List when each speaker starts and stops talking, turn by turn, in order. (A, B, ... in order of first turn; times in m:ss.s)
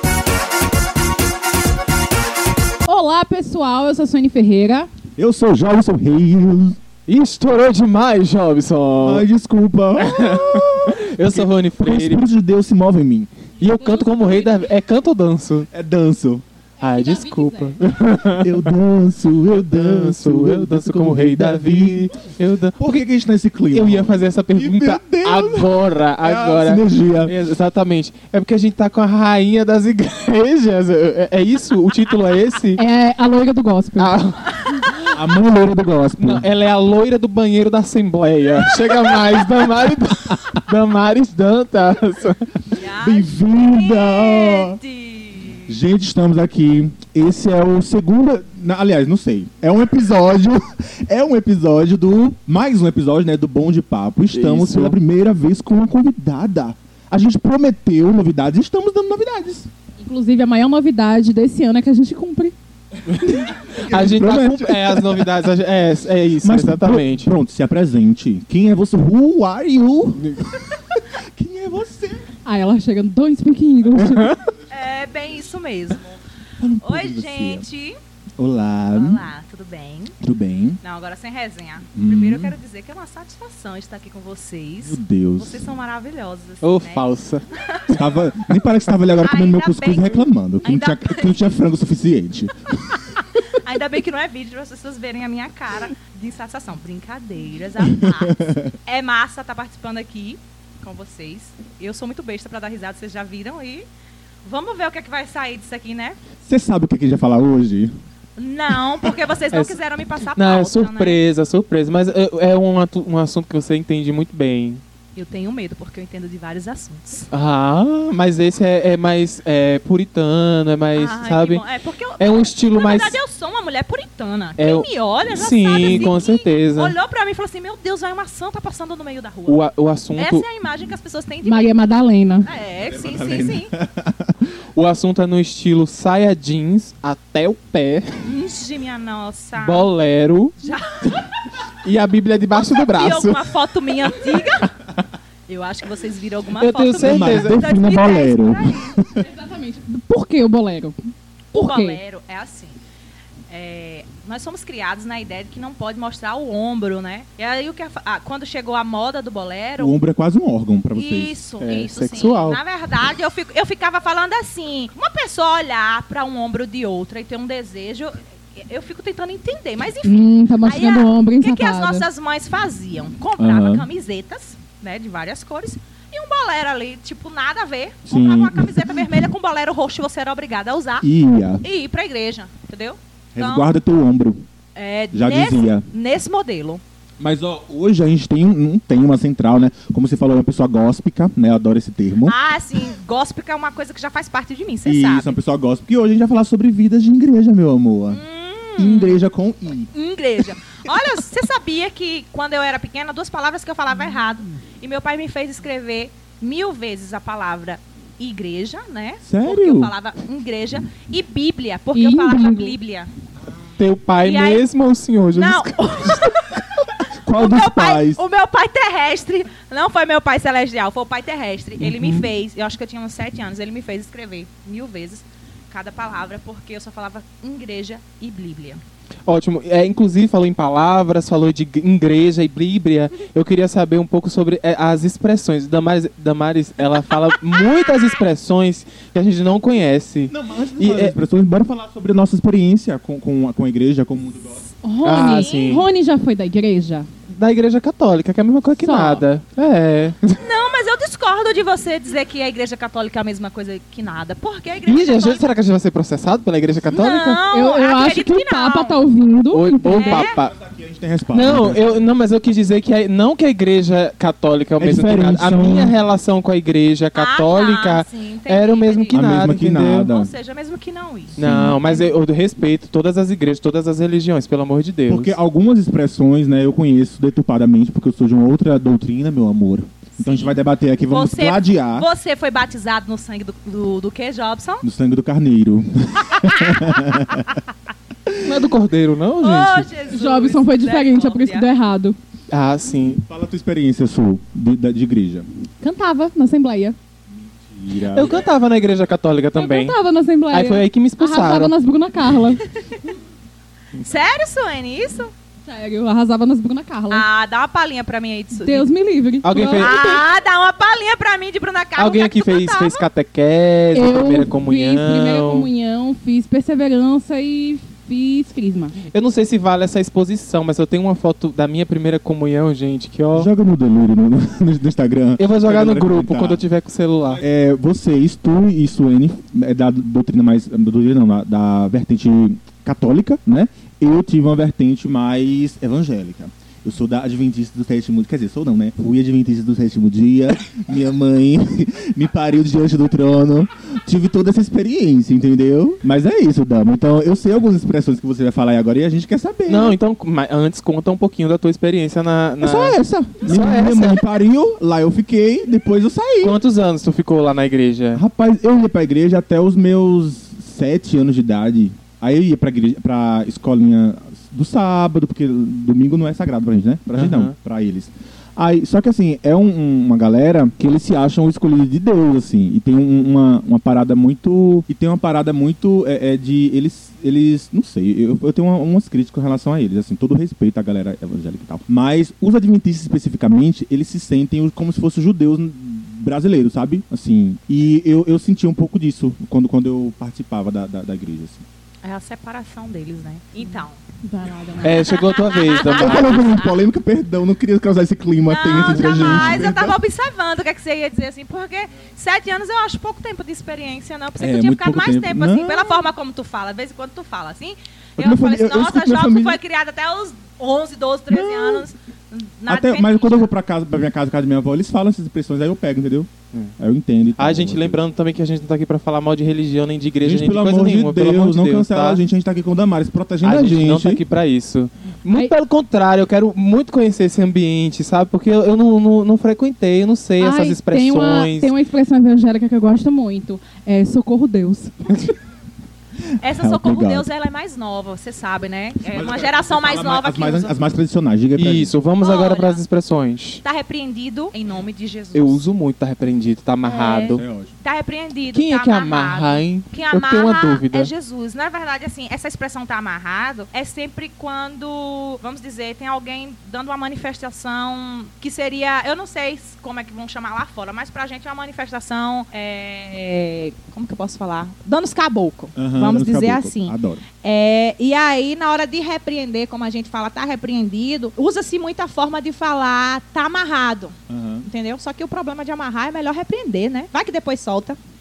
0:02.8-0:04.9 A
0:05.2-0:06.8 B
0:07.1-0:09.2 C
0:09.0-0:13.3 B
0:10.0-0:12.2 C
0:13.6-0:15.7 C
0:13.6-0:14.7 A
0:15.7-0:16.4 B
0:16.8-0:18.7 C
0:16.8-0:17.8 A
0:18.4-0:22.1 B
0:19.5-0:22.8 C
0:22.8-0:27.3 B
0:23.7-0:32.8 C
0:32.8-0:34.2 A
0:34.0-0:35.2 C
0:35.1-0:36.5 B
0:36.2-0:42.4 C
0:42.7-0:45.7 D
0:42.8-0:44.8 B
0:45.7-0:59.7 B
0:54.3-0:55.0 C
1:00.0-1:02.5 A
1:03.1-1:07.3 C
1:03.2-1:05.3 B
1:06.4-1:12.3 B
1:10.2-1:10.4 C
1:12.4-1:14.4 A
1:14.0-1:14.3 C
1:14.7-1:16.2 D
1:16.6-1:17.6 B
1:16.8-1:18.0 D
1:18.4-1:19.2 B
1:18.9-1:20.1 D
1:20.2-1:20.8 B
1:20.8-1:27.9 D
1:21.9-1:22.6 B
1:24.8-1:25.6 B
1:26.6-1:28.0 C
1:27.9-1:33.0 B
1:29.2-1:31.4 D
1:33.4-1:43.8 D
1:37.9-1:38.7 B
1:44.4-1:46.2 D
1:46.4-1:47.9 B
1:48.4-1:51.2 D
1:49.5-1:49.8 C
1:50.3-1:54.8 C
1:55.2-1:57.3 D
1:57.3-2:01.6 C
2:00.9-2:09.6 D
2:02.2-2:03.2 C
2:04.6-2:07.0 C
2:09.5-2:10.4 C
2:10.2-2:11.8 D
2:11.4-2:12.5 A
2:12.4-2:13.7 D
2:12.9-2:14.4 B
2:14.7-2:18.2 C
2:18.2-2:19.9 D
2:19.6-2:20.5 C
2:20.6-2:21.2 D
2:21.8-2:23.5 C
2:22.8-2:24.7 D
2:25.5-2:29.0 D
2:26.6-2:27.6 C
2:27.0-2:29.3 B
2:29.2-2:31.0 A
2:31.5-2:32.0 A
2:31.5-2:32.8 D
2:33.5-2:40.0 D
2:39.8-2:41.4 B
2:40.9-3:01.1 D
2:41.6-2:42.6 C
2:50.0-2:52.0 A
2:53.4-2:53.8 B
2:58.0-2:59.0 B
3:01.0-3:01.6 B
3:01.6-3:03.7 D
3:03.3-3:04.4 B
3:04.8-3:06.8 D
3:05.1-3:05.8 B
3:07.2-3:12.4 B
3:12.2-3:15.4 D
3:14.8-3:18.2 B
3:18.1-3:19.2 D
3:18.8-3:19.9 B
3:19.9-3:33.1 D
3:29.2-3:29.9 B
3:31.9-3:32.8 A
3:33.8-3:36.3 C
3:34.2-3:34.7 D
3:35.3-3:36.6 D
3:37.2-3:38.2 B
3:37.3-3:48.8 D
3:41.8-3:42.2 C
3:49.3-4:01.2 C
4:00.3-4:04.7 B
4:04.8-4:07.1 A
4:05.0-4:05.9 C
4:05.2-4:05.7 D
4:07.3-4:10.4 C
4:08.8-4:09.2 A
4:10.4-4:15.5 D
4:14.8-4:17.4 C
4:16.9-4:19.0 D
4:17.5-4:20.2 A
4:19.5-4:20.5 C
4:19.9-4:20.3 D
4:20.2-4:22.0 B
4:21.3-4:30.1 C
4:24.8-4:26.0 B
4:27.1-4:29.3 D
4:29.1-4:30.3 B
4:30.0-4:32.1 D
4:31.4-4:31.8 B
4:31.4-4:35.4 C
4:35.1-4:42.1 B
4:40.2-4:44.8 D
4:44.8-4:47.6 B
4:46.4-4:47.4 D
4:48.3-4:48.5 B
4:48.4-4:49.9 C
4:49.4-4:51.7 D
4:50.1-4:52.2 A
4:52.5-4:53.2 C
4:53.2-4:55.4 B
4:55.8-4:57.0 A
4:57.4-4:58.4 B
4:58.0-5:00.0 C
4:59.5-5:02.6 A
5:00.5-5:01.7 C
5:02.8-5:03.0 D
5:04.0-5:05.3 D
5:05.6-5:07.2 A
5:07.1-5:08.9 D
5:08.5-5:09.9 A
5:09.4-5:10.2 C
5:09.7-5:13.0 D
5:12.0-5:15.7 C
5:13.9-5:19.0 A
5:19.1-5:23.5 C
5:23.3-5:26.6 B
5:25.4-5:27.4 C
5:27.3-5:50.0 B
5:49.7-5:54.2 C
5:52.6-5:56.6 B
5:56.4-5:58.2 C
5:58.1-6:31.6 B
6:07.1-6:07.5 C
6:32.0-6:34.0 D
6:34.2-6:35.1 A
6:34.8-6:36.5 C
6:34.8-6:36.7 D
6:35.8-6:40.0 B
6:38.5-6:53.5 D
6:44.4-6:46.0 B
6:48.2-6:49.6 B
6:51.3-6:51.8 B
6:52.7-6:58.0 B
6:57.4-7:02.2 C
7:00.2-7:04.2 B
7:03.4-7:11.7 C
7:10.4-7:15.3 A
7:16.4-7:20.7 D
7:16.5-7:17.3 B
7:19.0-7:22.0 B
7:21.6-7:23.6 C
7:22.2-7:22.8 D
7:23.6-7:25.6 D
7:25.3-7:27.4 C
7:26.8-7:58.0 D
7:27.3-7:27.7 B
7:28.5-7:31.1 C
7:45.8-7:47.2 B
7:54.3-7:54.6 B